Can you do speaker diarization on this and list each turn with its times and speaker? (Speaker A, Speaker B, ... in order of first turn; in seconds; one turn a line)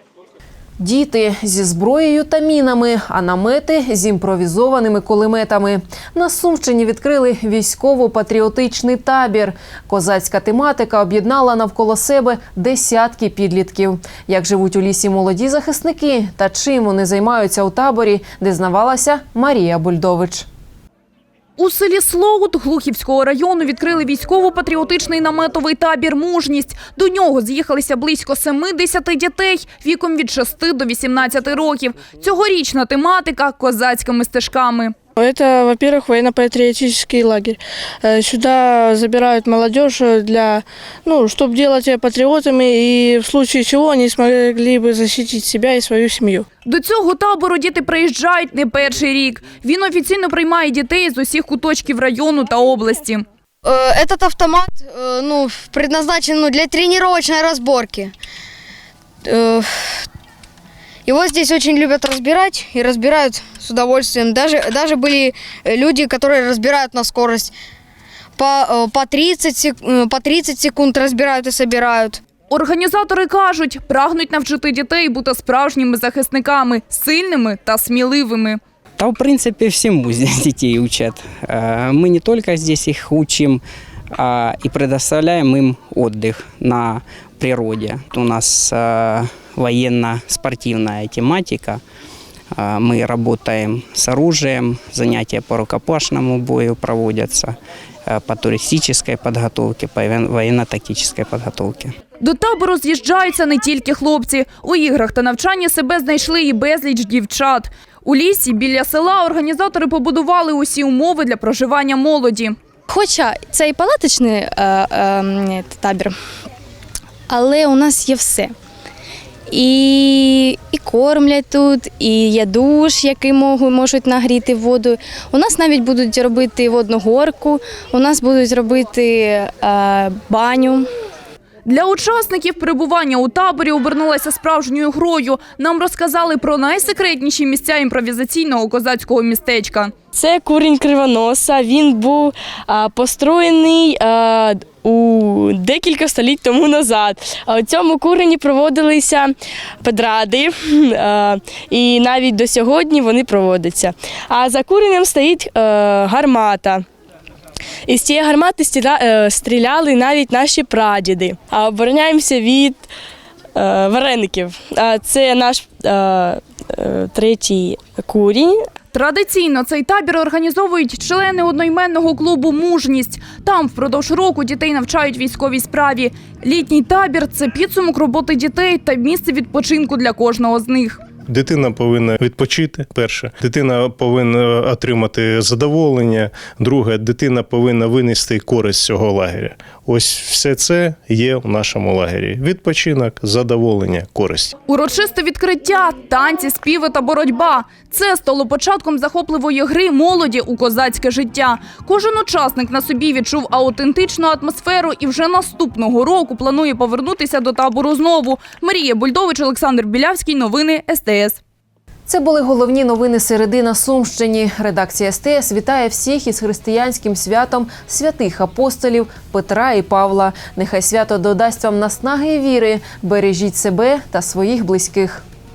Speaker A: 0.8-20.5
Speaker B: 21.6-34.9
Speaker C: 35.2-46.5
Speaker B: 46.7-53.2
Speaker D: 53.6-58.1
Speaker D: 59.3-59.7
Speaker D: 61.1-67.5
Speaker D: 68.4-72.2
Speaker B: 72.5-78.6
Speaker E: 79.0-83.6
Speaker E: 84.2-91.8
Speaker E: 92.6-97.6
Speaker E: 98.1-101.9
Speaker B: 102.2-112.6
Speaker F: 112.9-116.1
Speaker F: 117.3-118.5
Speaker F: 119.5-130.9
Speaker B: 131.7-140.0
Speaker G: 140.2-149.3
Speaker G: 149.8-156.8
Speaker G: 157.9-162.8
Speaker G: 163.6-166.4
Speaker G: 167.0-168.5
Speaker B: 168.9-181.0
Speaker H: 181.3-194.5
Speaker B: 194.7-211.4
Speaker A: 212.1-225.2